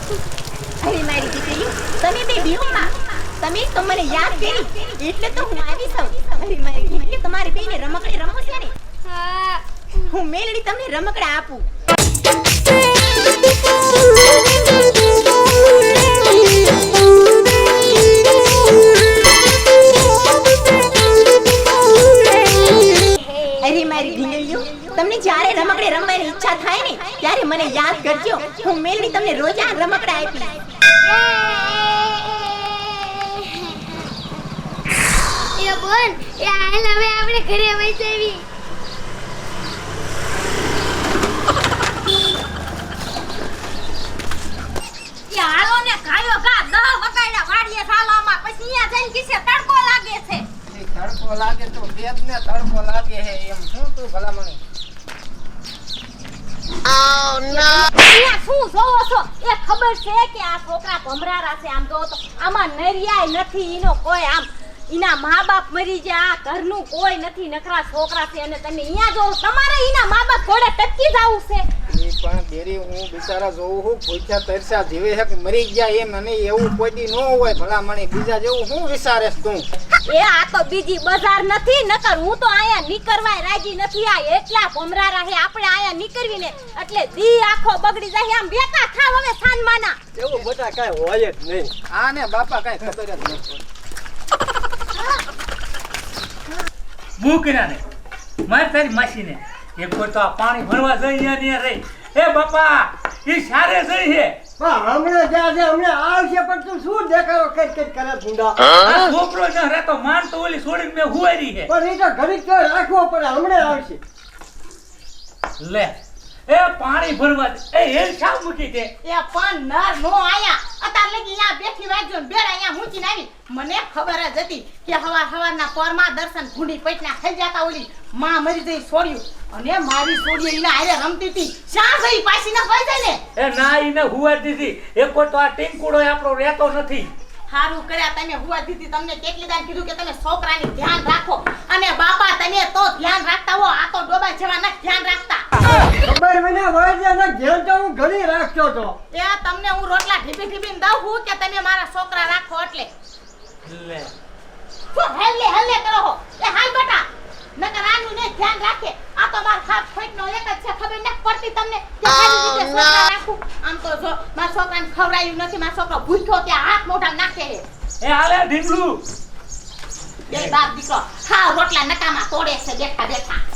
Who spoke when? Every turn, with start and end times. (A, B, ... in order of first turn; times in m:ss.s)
0:00.8-0:08.7 A
0:09.0-0:10.2 B
0:10.1-0:11.6 A
0:23.6-0:30.6 A
0:31.0-0:33.9 B
0:35.6-0:38.4 B
0:45.3-0:50.4 C
0:50.7-0:54.6 D
0:57.3-1:11.6 C
1:11.9-1:19.6 D
1:20.1-1:30.0 C
1:30.1-1:31.7 E
1:31.9-1:33.6 D
1:37.2-1:37.8 F
1:38.5-1:44.4 F
1:44.6-1:48.6 E
1:48.8-1:51.7 F
1:51.7-1:54.0 E
1:55.6-1:56.0 F
1:56.5-1:58.9 F
1:59.0-2:13.2 G
2:13.4-2:17.1 F
2:17.5-2:25.5 G
2:26.0-2:29.0 E
2:29.1-2:32.9 G
2:33.6-2:34.1 F
2:34.9-2:37.0 G
2:37.6-2:47.6 G
2:48.0-2:49.0 F
2:50.3-2:53.4 G